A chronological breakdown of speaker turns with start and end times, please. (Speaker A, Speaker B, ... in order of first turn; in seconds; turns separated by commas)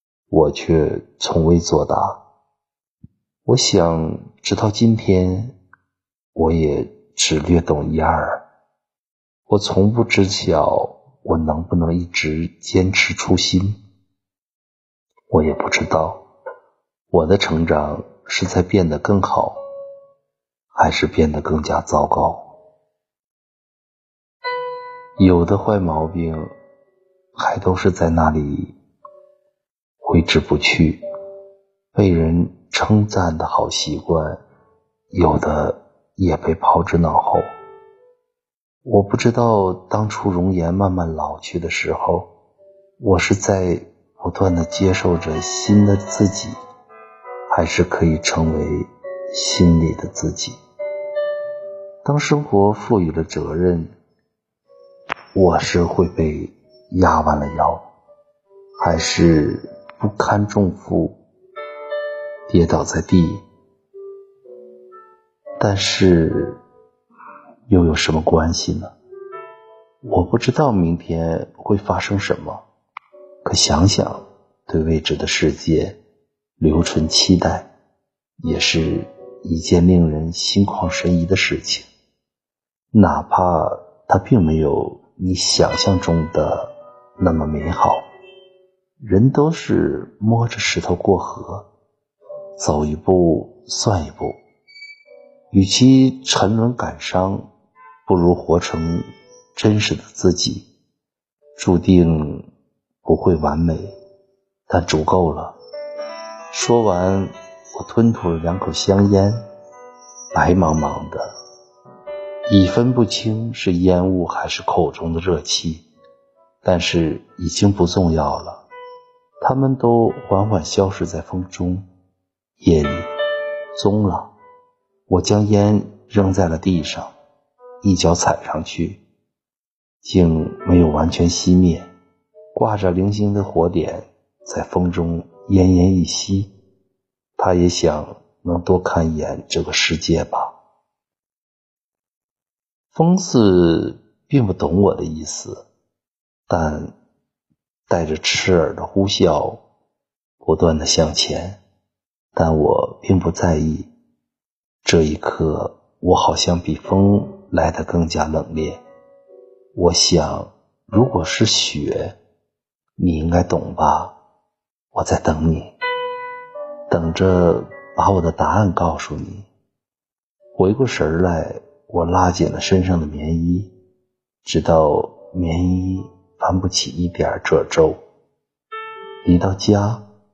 Speaker A: 0.3-2.2, Speaker A: 3.5-5.6, Speaker A: 6.3-8.4, Speaker A: 9.5-13.8, Speaker A: 15.3-16.2, Speaker A: 17.1-19.6, Speaker A: 20.7-22.5, Speaker A: 25.2-26.5, Speaker A: 27.4-28.8, Speaker A: 30.0-31.0, Speaker A: 31.9-34.4, Speaker A: 35.1-37.4, Speaker A: 38.8-42.3, Speaker A: 43.0-46.5, Speaker A: 47.5-50.6, Speaker A: 52.0-53.9, Speaker A: 55.3-57.9, Speaker A: 58.8-61.2, Speaker A: 62.5-63.4, Speaker A: 65.6-66.6, Speaker A: 67.7-68.9, Speaker A: 70.0-72.6, Speaker A: 73.4-76.0, Speaker A: 76.6-77.7, Speaker A: 78.4-81.9, Speaker A: 82.9-88.0, Speaker A: 89.0-91.7, Speaker A: 92.6-94.4, Speaker A: 95.5-97.5, Speaker A: 98.0-100.7, Speaker A: 101.5-102.5, Speaker A: 103.0-104.0, Speaker A: 104.7-105.6, Speaker A: 106.5-109.4, Speaker A: 110.3-111.3, Speaker A: 112.5-115.9, Speaker A: 116.6-118.6, Speaker A: 119.4-121.8, Speaker A: 122.6-123.1, Speaker A: 123.7-124.3, Speaker A: 125.1-127.1, Speaker A: 127.8-129.0, Speaker A: 130.0-131.9, Speaker A: 132.5-136.5, Speaker A: 137.4-140.5, Speaker A: 142.9-145.7, Speaker A: 146.5-146.9, Speaker A: 147.9-149.6, Speaker A: 150.4-151.6, Speaker A: 152.3-153.9, Speaker A: 154.8-158.8, Speaker A: 159.7-162.2, Speaker A: 163.0-164.1, Speaker A: 164.9-165.7, Speaker A: 166.9-169.5, Speaker A: 170.5-173.7, Speaker A: 174.4-178.0, Speaker A: 179.2-180.0